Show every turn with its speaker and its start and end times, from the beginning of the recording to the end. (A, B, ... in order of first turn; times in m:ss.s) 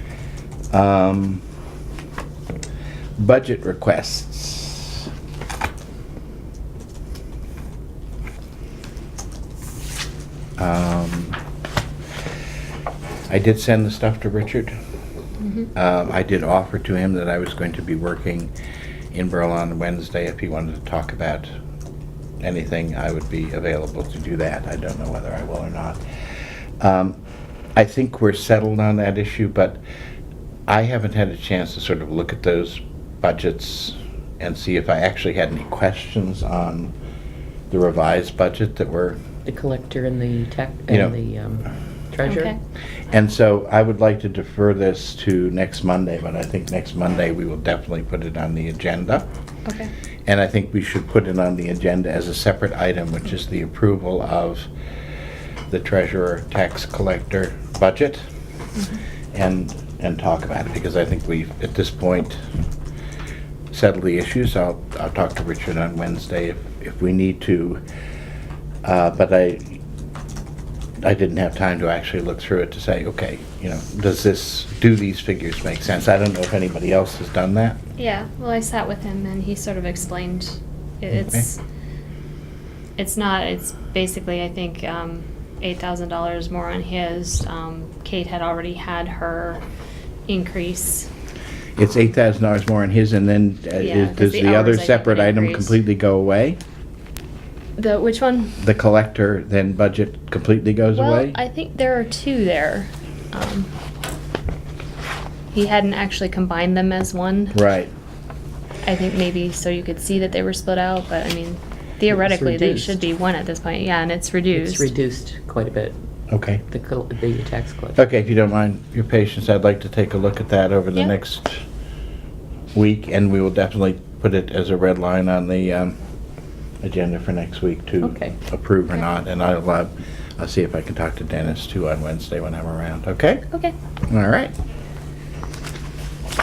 0:00.7-0:01.4 A
0:03.2-0:05.1 A
0:10.6-0:11.4 A
0:13.3-0:14.7 A
0:15.7-0:18.5 A
0:19.1-0:21.5 A
0:22.4-0:26.0 A
0:26.8-0:27.2 A
0:27.8-0:29.8 A
0:30.7-0:36.9 A
0:37.7-0:39.2 A
0:39.4-0:42.5 B
0:40.9-0:41.1 A
0:42.2-0:42.6 C
0:43.1-0:49.3 A
0:49.6-0:49.9 C
0:50.2-0:54.7 A
0:55.7-0:58.2 A
0:59.3-1:02.4 A
1:03.7-1:07.8 A
1:08.8-1:09.8 A
1:11.0-1:17.8 A
1:18.0-1:21.6 C
1:21.1-1:21.5 A
1:23.0-1:29.6 C
1:30.3-1:31.1 C
1:31.8-1:36.6 A
1:33.8-1:35.8 C
1:37.8-1:38.6 C
1:38.6-1:41.4 A
1:40.9-1:43.7 C
1:45.5-1:47.6 C
1:47.5-1:47.9 A
1:48.8-1:54.9 C
1:52.1-1:53.0 B
1:54.5-1:56.0 B
1:56.3-1:56.6 A
1:56.7-1:58.0 B
1:58.0-2:01.6 A
2:02.7-2:06.0 A
2:06.8-2:13.4 A
2:08.0-2:08.4 B
2:14.1-2:14.5 A